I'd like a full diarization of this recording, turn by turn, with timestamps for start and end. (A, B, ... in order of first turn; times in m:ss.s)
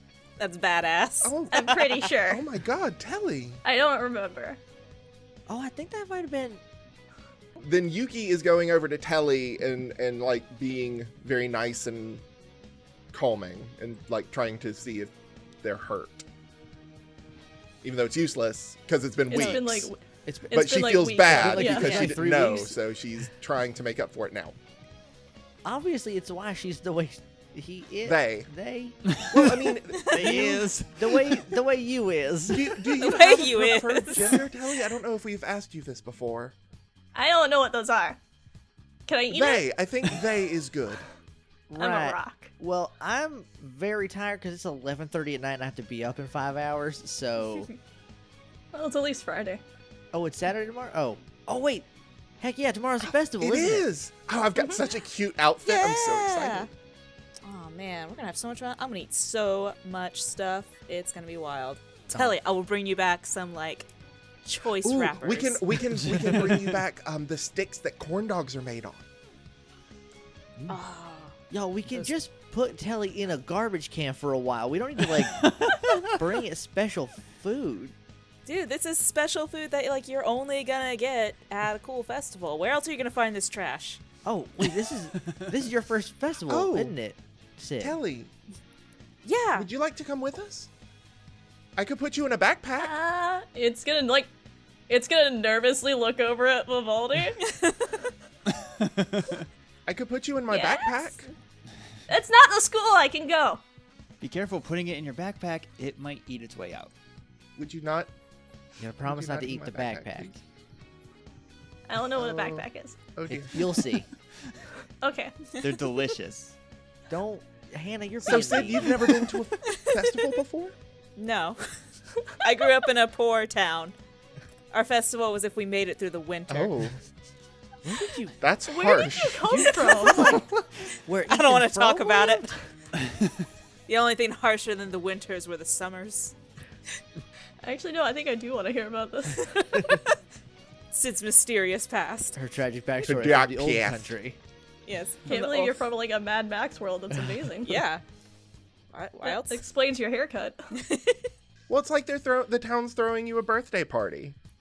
0:00.4-0:02.0 A
0:01.2-0:03.6 B
0:01.5-0:02.4 C
0:03.6-0:04.6 C
0:05.5-0:06.6 D
0:07.6-0:12.2 B
0:13.1-0:16.2 B
0:17.8-0:19.9 B
0:19.3-0:22.1 C
0:20.2-0:22.8 D
0:20.5-0:24.6 B
0:25.6-0:29.0 D
0:28.0-0:28.5 B
0:29.1-0:29.5 E
0:29.3-0:30.6 B
0:30.1-0:31.4 E
0:30.1-0:32.8 D
0:32.5-0:36.5 B
0:32.9-0:34.5 A
0:37.1-0:38.2 C
0:39.1-0:39.7 C
0:39.3-0:41.0 B
0:41.7-0:47.7 D
0:41.8-0:42.5 C
0:48.7-0:49.6 C
0:50.1-0:51.8 D
0:52.4-0:53.8 D
0:53.4-0:56.7 B
0:55.6-0:56.7 A
0:57.4-1:03.9 A
1:04.4-1:05.6 A
1:04.8-1:09.0 B
1:06.0-1:06.8 E
1:10.7-1:11.3 A
1:11.5-1:17.9 D
1:15.1-1:16.2 E
1:18.4-1:24.0 A
1:24.2-1:28.0 D
1:26.5-1:26.9 B
1:27.8-1:28.3 B
1:29.2-1:29.7 A
1:29.5-1:30.7 B
1:31.8-1:32.9 B
1:32.8-1:34.3 C
1:34.9-1:37.4 C
1:37.4-1:38.0 A
1:38.5-1:39.4 E
1:39.8-1:41.3 B
1:40.5-1:41.3 C
1:42.1-1:43.6 C
1:44.2-1:46.9 E
1:47.6-1:48.1 B
1:48.8-1:50.4 D
1:49.0-1:50.4 B
1:51.9-1:53.0 C
1:52.2-1:53.9 B
1:53.3-1:54.1 D
1:55.0-1:55.4 C
1:55.6-1:56.5 E
1:57.1-1:59.1 D
1:58.2-2:00.8 B
1:59.7-2:00.3 A
2:01.2-2:01.7 A
2:02.4-2:03.9 A
2:04.7-2:06.8 A
2:06.5-2:07.0 B
2:07.8-2:08.3 D
2:08.4-2:10.5 B
2:08.7-2:10.4 C
2:09.6-2:10.4 A
2:11.0-2:12.5 D
2:11.3-2:12.5 A
2:13.0-2:13.4 E
2:13.9-2:16.3 A
2:17.6-2:20.0 C
2:19.7-2:20.1 A
2:20.9-2:22.4 A
2:22.3-2:24.4 D
2:23.0-2:24.1 B
2:24.8-2:25.9 A
2:25.3-2:27.8 C
2:27.6-2:28.0 A
2:28.9-2:29.6 A
2:29.2-2:30.6 C
2:30.7-2:31.2 A
2:31.7-2:34.4 B